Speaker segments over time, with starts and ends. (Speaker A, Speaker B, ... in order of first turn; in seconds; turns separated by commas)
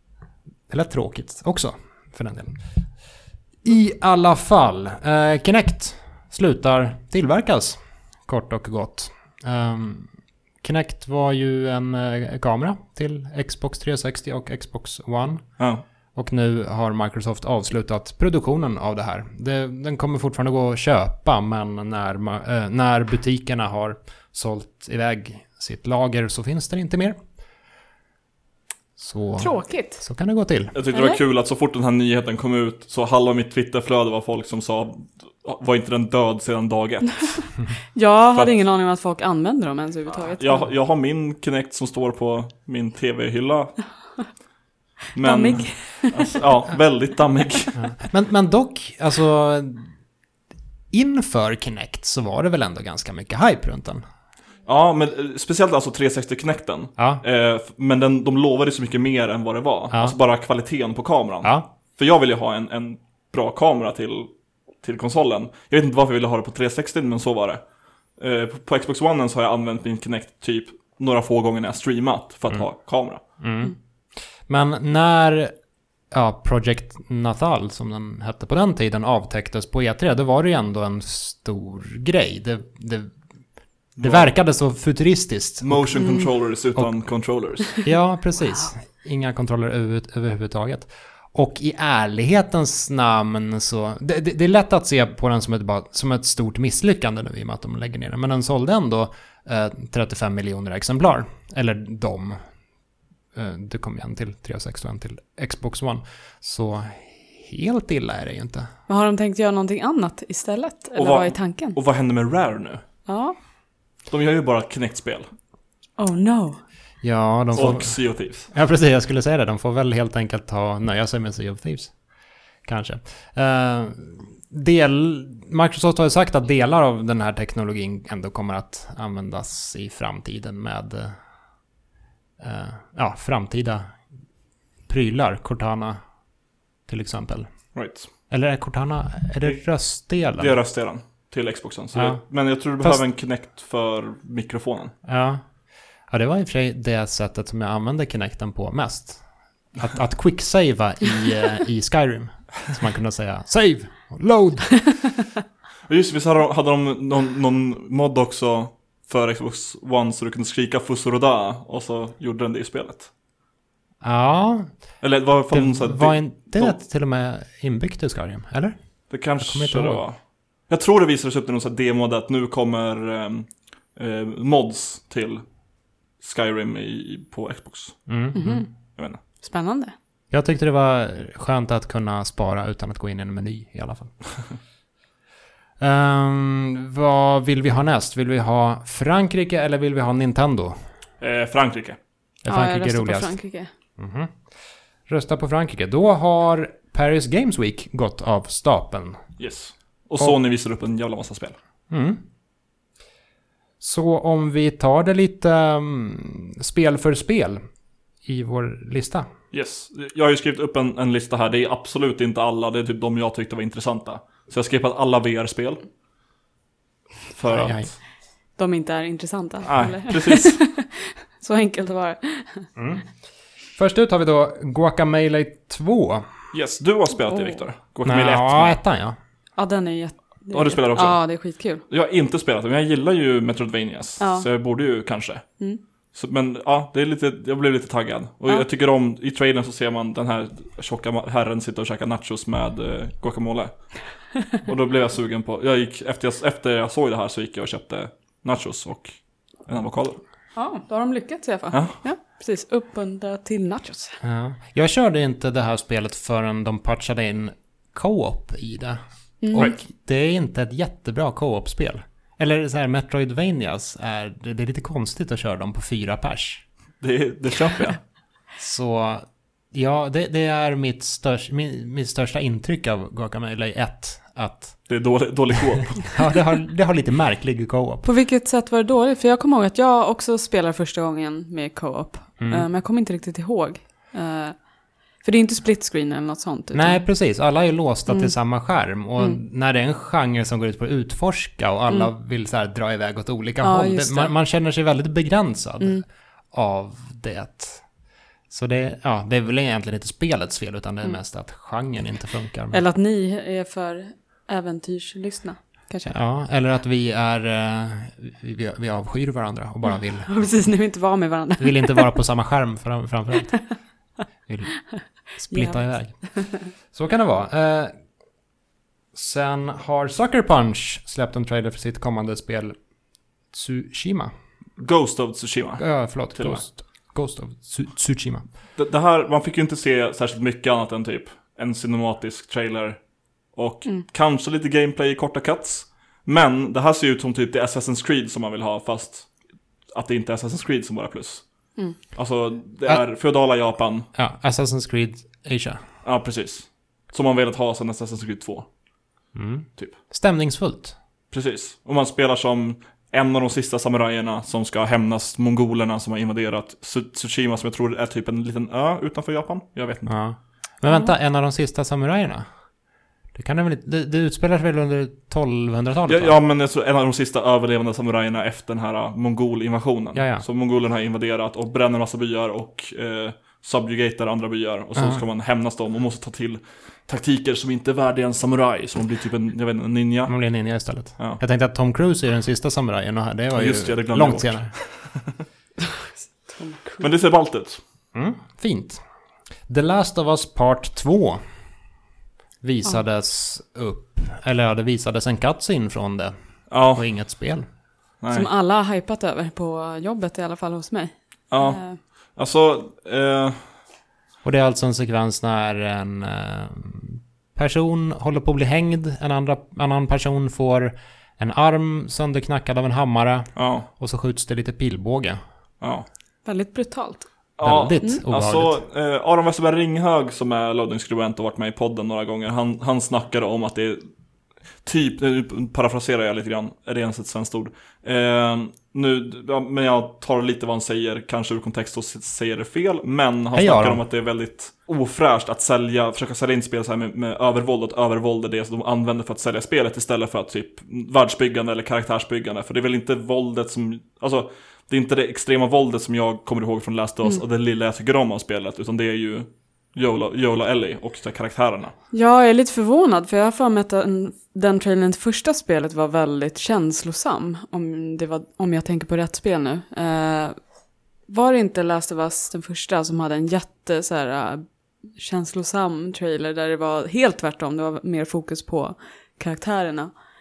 Speaker A: 0.7-2.6, Speaker A: 3.6-10.1, Speaker A: 10.6-15.6, Speaker A: 16.1-27.2, Speaker A: 29.0-30.8, Speaker B: 29.4-30.0, Speaker C: 30.8-37.5, Speaker B: 30.9-31.2, Speaker B: 37.9-40.7, Speaker C: 40.4-43.8, Speaker C: 45.1-47.7, Speaker B: 45.2-46.2, Speaker A: 47.8-49.9, Speaker A: 50.9-54.0, Speaker C: 54.6-64.3, Speaker A: 57.0-57.2, Speaker C: 64.8-67.6, Speaker C: 68.2-73.2, Speaker A: 73.4-73.8, Speaker A: 74.5-75.5, Speaker A: 76.1-83.2, Speaker C: 84.0-84.3, Speaker A: 84.0-86.1, Speaker C: 85.6-87.8, Speaker B: 86.0-86.3, Speaker A: 87.8-102.4, Speaker A: 103.3-108.7, Speaker B: 108.9-111.8, Speaker C: 111.0-112.8, Speaker B: 113.1-113.4, Speaker C: 114.1-115.3, Speaker B: 116.0-116.6, Speaker A: 117.0-121.9, Speaker C: 117.5-118.5, Speaker A: 122.6-131.2, Speaker A: 132.4-134.0, Speaker A: 134.9-136.0, Speaker A: 136.9-137.5, Speaker C: 137.8-138.1, Speaker A: 138.3-140.6, Speaker C: 140.4-144.9, Speaker A: 141.9-142.2, Speaker A: 145.0-145.4, Speaker A: 146.1-149.2, Speaker A: 149.8-154.8, Speaker C: 155.9-163.1, Speaker A: 164.0-164.7, Speaker C: 165.0-166.8, Speaker A: 165.5-168.8, Speaker C: 169.1-170.2, Speaker A: 169.4-170.0, Speaker C: 170.7-175.4, Speaker C: 176.2-178.1, Speaker A: 178.1-178.7, Speaker B: 178.3-178.7, Speaker B: 179.4-179.9, Speaker A: 180.3-184.2, Speaker A: 185.8-190.8, Speaker C: 191.2-192.0, Speaker A: 192.4-193.4, Speaker B: 192.5-193.7, Speaker A: 194.0-194.3, Speaker A: 195.1-199.2, Speaker C: 199.4-201.6, Speaker A: 201.9-202.2, Speaker A: 203.8-207.6, Speaker A: 208.2-209.3, Speaker C: 209.5-215.8, Speaker C: 217.3-217.9, Speaker A: 217.5-217.9, Speaker B: 218.6-222.7, Speaker C: 219.6-220.6, Speaker A: 222.8-223.0, Speaker A: 223.8-226.3, Speaker C: 226.5-228.8, Speaker B: 227.3-227.6, Speaker A: 228.0-229.2, Speaker B: 229.6-231.8, Speaker C: 230.5-231.2, Speaker C: 231.9-235.5, Speaker B: 234.2-234.5, Speaker C: 236.1-243.9, Speaker C: 244.5-250.2, Speaker B: 250.6-254.2, Speaker C: 251.7-252.0, Speaker A: 254.2-259.0, Speaker B: 259.4-259.7, Speaker A: 259.5-266.6, Speaker C: 267.0-268.0, Speaker A: 268.6-274.8, Speaker C: 274.9-276.1, Speaker A: 276.0-278.1, Speaker B: 278.0-284.7, Speaker A: 282.4-282.6, Speaker B: 285.2-287.0, Speaker A: 286.7-297.9, Speaker B: 293.6-294.3, Speaker A: 298.5-302.8, Speaker B: 302.7-306.1, Speaker A: 306.0-310.5, Speaker B: 310.3-312.0, Speaker A: 311.6-313.6, Speaker A: 314.5-314.8, Speaker A: 315.4-316.3, Speaker B: 315.5-316.4, Speaker A: 316.9-317.9, Speaker A: 319.1-322.8, Speaker A: 323.5-324.3, Speaker C: 324.8-326.6, Speaker A: 325.8-328.4, Speaker C: 328.8-333.0, Speaker C: 333.5-339.3, Speaker C: 339.9-341.5, Speaker C: 342.1-344.1, Speaker A: 344.1-345.8, Speaker C: 346.0-348.7, Speaker A: 349.4-351.0, Speaker C: 351.3-360.1, Speaker A: 360.1-362.5, Speaker A: 363.3-366.4, Speaker C: 366.1-380.3, Speaker A: 370.1-370.4, Speaker A: 380.3-384.7, Speaker C: 383.5-385.3, Speaker B: 385.8-387.1, Speaker C: 387.0-387.8, Speaker A: 388.1-389.0, Speaker A: 389.7-391.4, Speaker A: 392.6-396.3, Speaker C: 396.7-397.0, Speaker A: 396.9-397.6, Speaker C: 398.2-398.5, Speaker B: 398.3-402.0, Speaker C: 401.5-403.6, Speaker A: 404.4-415.4, Speaker C: 413.6-413.9, Speaker C: 415.8-416.1, Speaker B: 416.4-417.3, Speaker C: 417.6-424.0, Speaker A: 417.6-418.8, Speaker C: 424.8-451.9, Speaker A: 433.5-434.0, Speaker B: 452.1-460.6, Speaker B: 461.3-464.6, Speaker B: 465.1-470.1